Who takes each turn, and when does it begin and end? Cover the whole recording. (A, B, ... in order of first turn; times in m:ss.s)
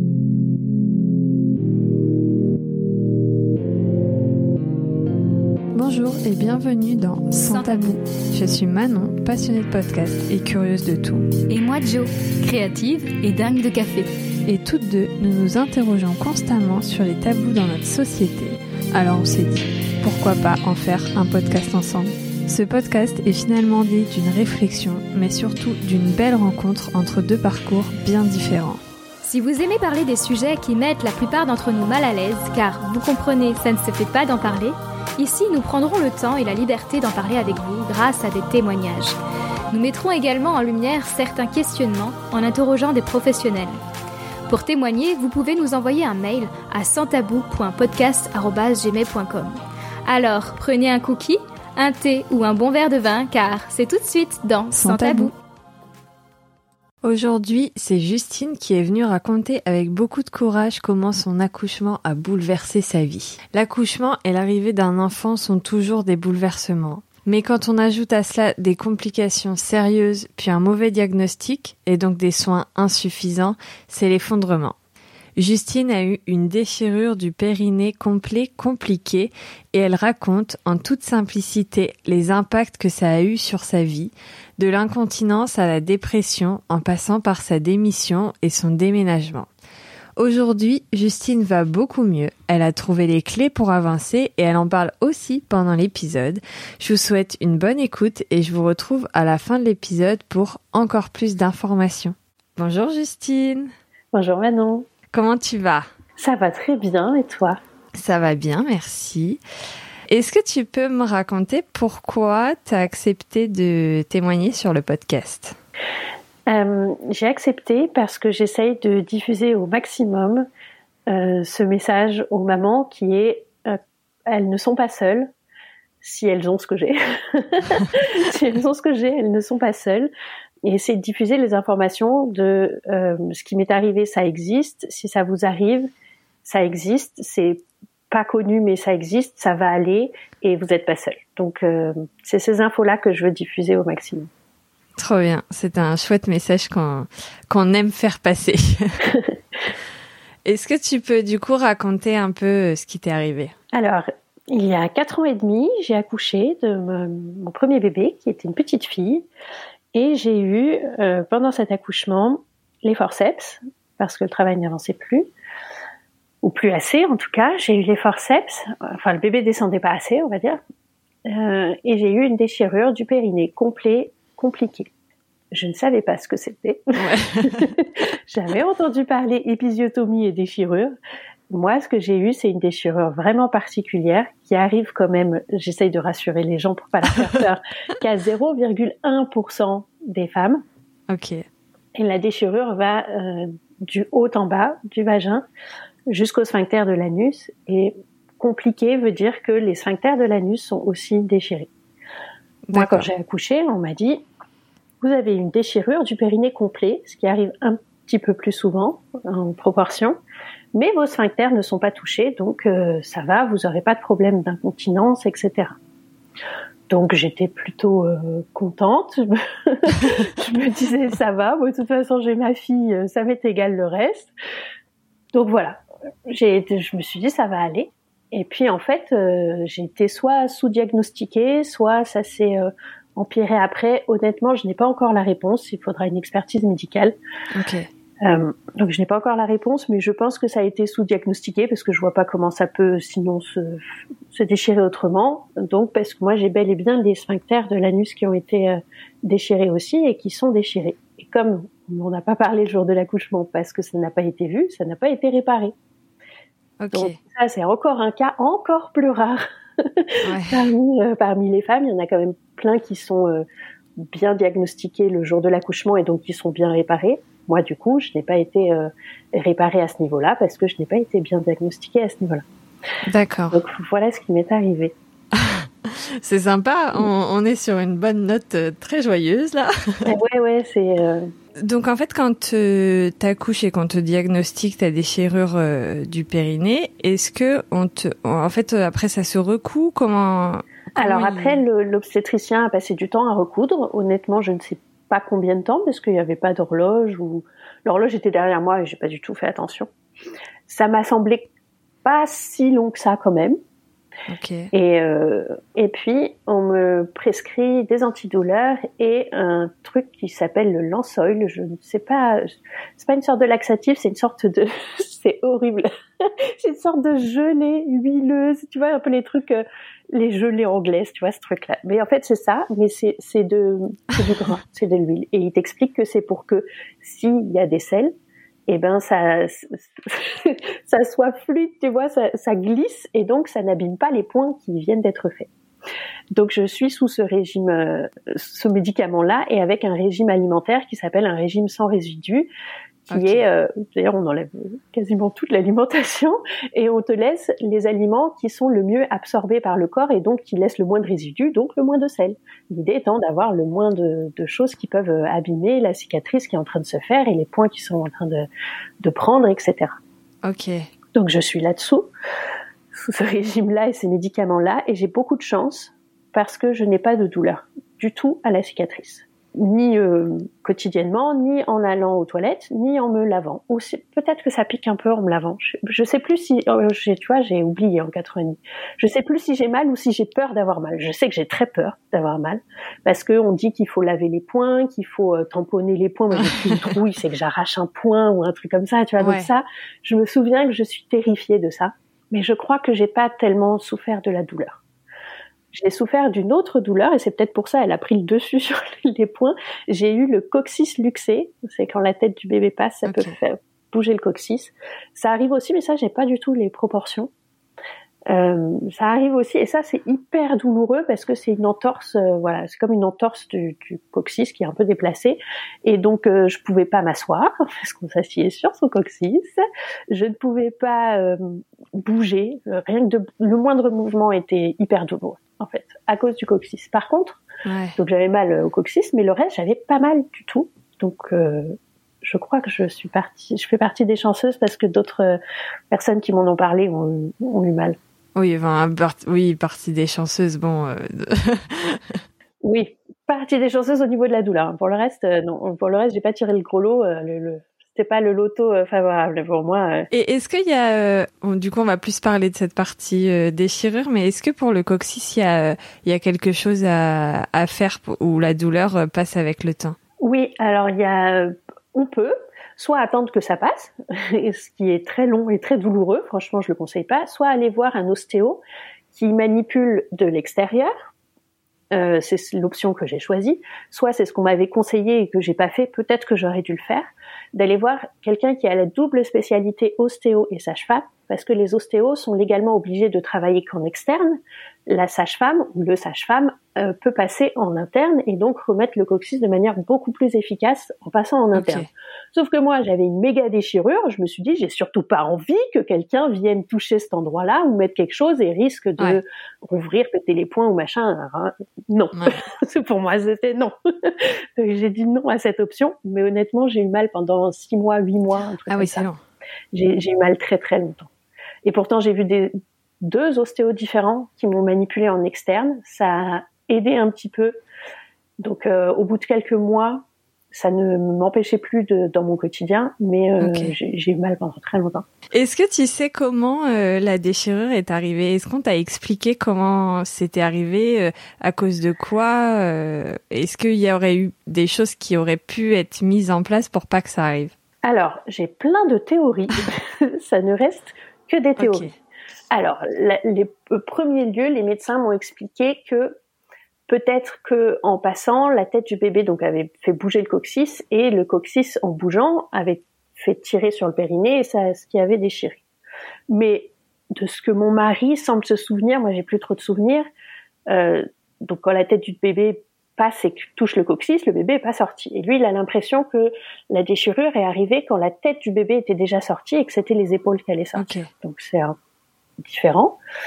0:05.7-0:11.3 A
0:07.4-0:08.0 B
0:11.5-0:14.1 B
0:14.5-0:28.8 A
0:29.2-0:39.2 B
0:39.7-0:43.8 B
0:44.5-0:55.3 B
0:54.7-0:55.3 A
0:57.0-1:14.8 A
1:15.4-1:29.5 A
1:30.2-1:43.7 A
1:44.1-1:44.9 C
1:45.1-1:45.9 A
1:46.2-1:47.6 C
1:48.0-1:49.4 A
1:50.1-1:55.6 A
1:56.5-2:00.5 C
2:01.1-2:05.3 C
2:06.0-2:10.1 C
2:10.6-2:15.9 C
2:16.4-2:24.3 C
2:25.0-2:29.1 A
2:30.4-2:33.5 A
2:33.7-2:39.3 C
2:39.9-2:45.3 C
2:46.4-2:50.6 C
2:51.2-2:54.9 C
2:55.5-3:01.0 C
2:57.0-2:57.7 A
3:01.5-3:10.6 C
3:11.1-3:11.4 A
3:12.0-3:15.4 C
3:16.1-3:21.7 C
3:22.7-3:23.1 A
3:22.7-3:24.2 C
3:25.0-3:30.2 C
3:30.7-3:35.8 C
3:36.9-3:44.3 C
3:45.3-3:57.2 C
3:57.5-3:57.9 A
3:58.2-4:15.7 C
4:16.8-4:17.2 A
4:16.9-4:23.4 C
4:20.2-4:20.7 A
4:24.0-4:32.4 C
4:33.0-4:33.6 A
4:33.5-4:34.9 C
4:35.3-4:40.1 A
4:40.1-4:41.3 C
4:41.6-4:51.6 A
4:51.0-4:59.9 C
5:00.7-5:01.5 C
5:02.0-5:03.6 C
5:04.3-5:04.7 A
5:04.7-5:28.1 C
5:28.7-5:35.5 C
5:36.3-5:42.5 C
5:43.1-5:58.5 C
5:43.1-5:43.5 A
5:59.0-6:00.0 C
6:00.4-6:00.9 A
6:01.1-6:02.1 C
6:02.9-6:34.8 C
6:26.4-6:27.0 A
6:29.2-6:29.5 A
6:35.7-6:47.3 C
6:43.0-6:43.4 A
6:48.3-7:07.4 C
7:07.6-7:08.0 A
7:08.0-7:15.4 C
7:15.9-7:18.0 C
7:18.4-7:22.2 A
7:22.6-7:30.1 C
7:30.1-7:40.0 A
7:40.2-7:48.6 C
7:49.1-7:51.1 C
7:51.9-8:29.1 C
8:11.5-8:11.9 A
8:22.2-8:22.4 A
8:28.7-8:29.2 A
8:29.7-8:31.1 C
8:31.6-8:37.6 C
8:38.4-8:45.1 C
8:43.4-8:43.8 A
8:45.3-8:57.5 A
8:57.8-9:01.9 C
9:01.6-9:01.9 A
9:02.5-9:06.2 C
9:06.9-9:15.6 C
9:16.3-9:20.1 C
9:20.7-9:31.8 C
9:30.8-9:31.1 A
9:32.4-9:33.0 C